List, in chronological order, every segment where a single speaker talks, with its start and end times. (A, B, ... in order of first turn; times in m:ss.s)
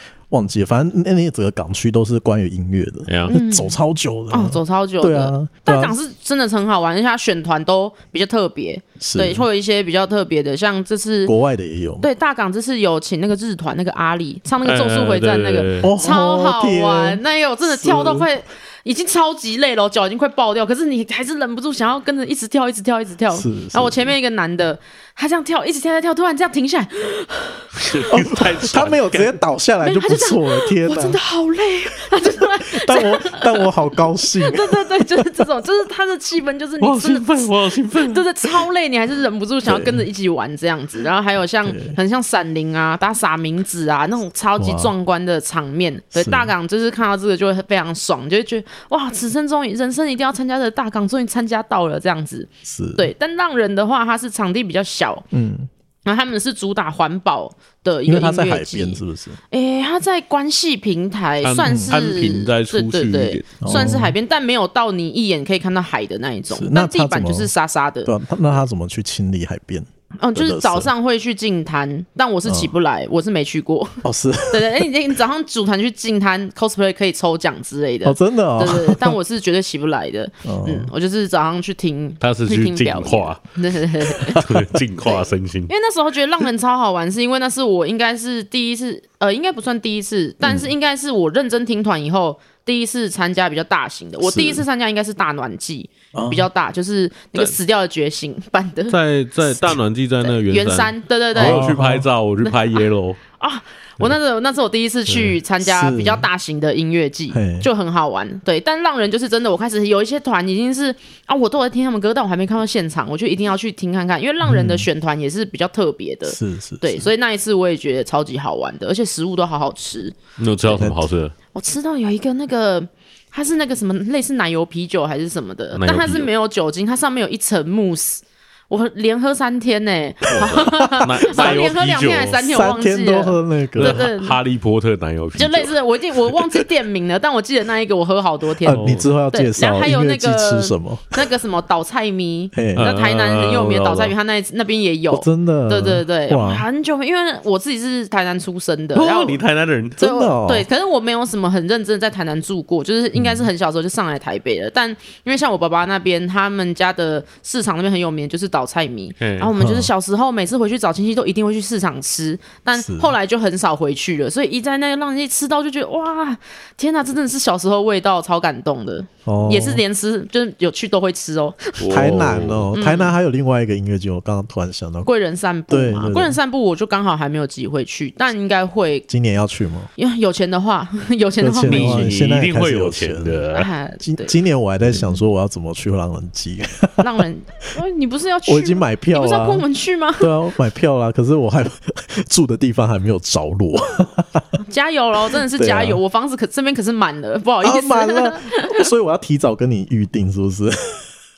0:00.3-0:06.0 A
0:03.1-0:03.3 B
0:03.3-0:03.8 C
0:04.3-0:11.3 C
0:09.0-0:09.5 A
0:11.3-0:12.1 A
0:12.0-0:27.7 C
0:14.6-0:15.9 B
0:15.8-0:18.3 A
0:23.3-0:24.1 A
0:27.8-0:29.4 B
0:28.1-0:31.2 A
0:29.8-0:33.7 C
0:32.6-0:35.3 A
0:34.4-0:55.3 C
0:36.8-0:38.3 B
0:39.6-0:40.0 A
0:41.6-0:42.0 A
0:44.6-0:44.9 A
0:46.2-0:46.5 A
0:52.6-0:53.1 A
0:55.3-0:55.7 A
0:56.0-1:08.1 C
0:58.1-0:59.4 A
1:01.4-1:03.6 B
1:01.6-1:02.0 A
1:03.6-1:04.2 A
1:06.5-1:07.5 A
1:08.0-1:10.9 A
1:10.2-1:24.5 C
1:14.0-1:14.9 A
1:18.0-1:19.2 A
1:20.4-1:20.9 A
1:22.2-1:25.7 B
1:25.0-1:39.0 C
1:30.4-1:30.7 A
1:34.2-1:34.6 A
1:36.1-1:36.5 A
1:38.9-1:43.2 B
1:40.2-1:41.8 C
1:41.4-1:42.1 A
1:43.4-2:00.8 C
1:45.6-1:46.3 A
1:47.3-1:47.7 A
1:54.4-1:54.9 A
1:56.3-1:57.1 A
2:00.4-2:01.3 B
2:01.5-2:14.4 C
2:05.8-2:06.3 B
2:10.3-2:12.6 B
2:10.8-2:11.6 A
2:12.5-2:14.1 A
2:13.8-2:15.8 B
2:15.4-2:29.4 C
2:18.6-2:21.2 A
2:18.7-2:19.1 B
2:22.5-2:22.9 A
2:22.8-2:24.1 B
2:25.1-2:26.6 A
2:28.9-2:30.0 B
2:30.0-2:51.8 C
2:30.0-2:30.7 A
2:33.2-2:33.5 A
2:39.2-2:39.5 B
2:39.6-2:39.9 A
2:42.8-2:43.1 A
2:49.3-2:49.8 A
2:51.8-2:52.7 B
2:51.9-2:55.1 A
2:52.7-2:53.1 C
2:55.0-2:59.1 C
2:55.7-2:56.4 A
2:59.1-2:59.9 A
3:00.0-3:02.1 C
3:01.4-3:03.4 A
3:01.6-3:03.7 B
3:03.5-3:04.4 C
3:04.0-3:07.2 A
3:07.0-3:10.3 C
3:08.5-3:09.7 A
3:10.2-3:14.5 A
3:14.6-3:18.8 C
3:15.5-3:16.0 A
3:17.6-3:21.1 A